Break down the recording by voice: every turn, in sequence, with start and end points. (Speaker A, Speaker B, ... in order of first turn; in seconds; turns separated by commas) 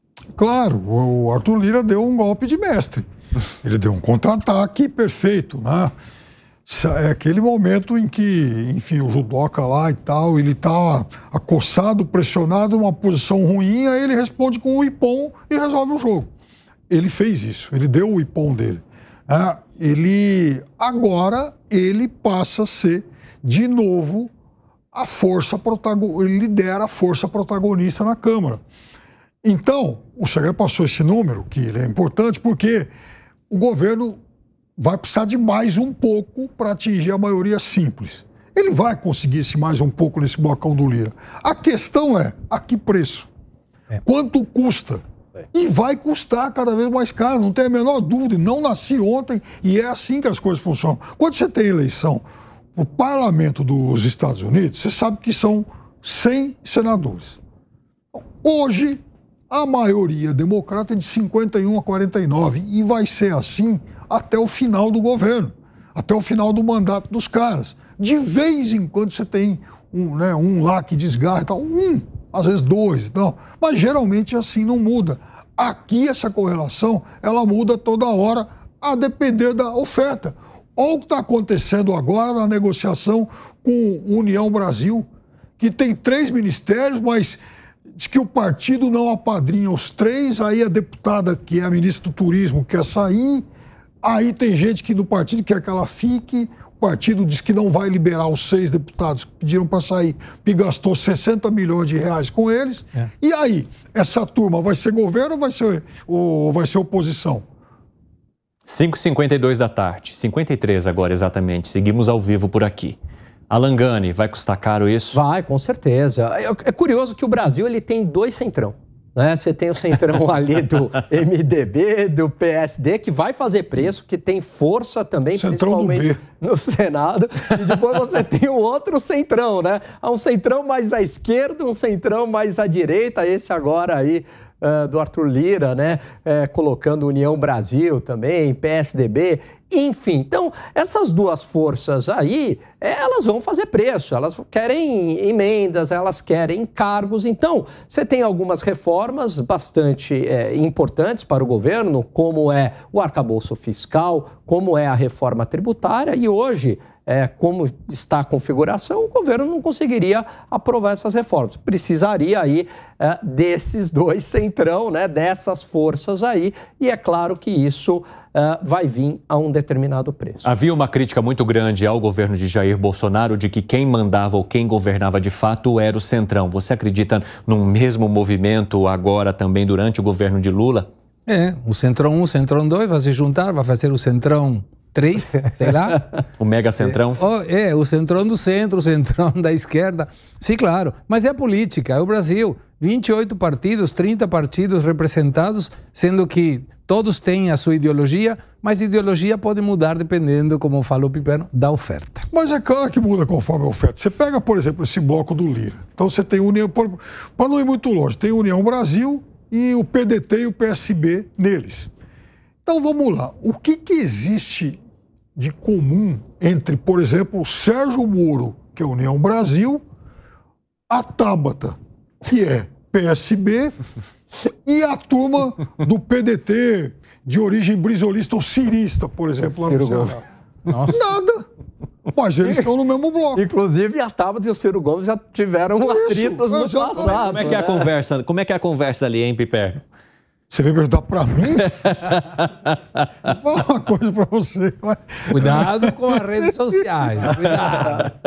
Speaker A: 0.3-3.0, Speaker A: 3.6-5.9, Speaker A: 6.7-16.3, Speaker A: 16.9-24.3, Speaker A: 24.9-28.6, Speaker A: 29.4-32.9, Speaker A: 33.5-34.2, Speaker A: 34.8-43.3, Speaker A: 44.0-45.0, Speaker A: 45.5-57.4, Speaker A: 58.1-85.0, Speaker A: 85.6-87.4, Speaker A: 87.9-93.4, Speaker A: 94.0-107.4, Speaker B: 108.7-113.0, Speaker B: 113.5-115.2, Speaker C: 115.1-170.5, Speaker A: 125.3-126.2, Speaker B: 170.4-180.9, Speaker D: 181.3-186.1, Speaker B: 186.3-187.2, Speaker D: 187.2-202.2, Speaker A: 202.3-211.9, Speaker A: 212.7-214.8, Speaker A: 215.3-219.8, Speaker A: 220.9-223.7, Speaker A: 224.4-230.2, Speaker C: 229.4-230.2, Speaker D: 230.7-231.0, Speaker A: 230.9-231.4, Speaker A: 232.1-233.4, Speaker C: 232.4-232.7, Speaker C: 233.3-237.9, Speaker A: 235.8-237.5, Speaker B: 237.0-239.8, Speaker A: 240.5-242.0, Speaker B: 241.8-242.5, Speaker A: 243.2-247.6, Speaker D: 245.3-248.1, Speaker B: 247.7-248.2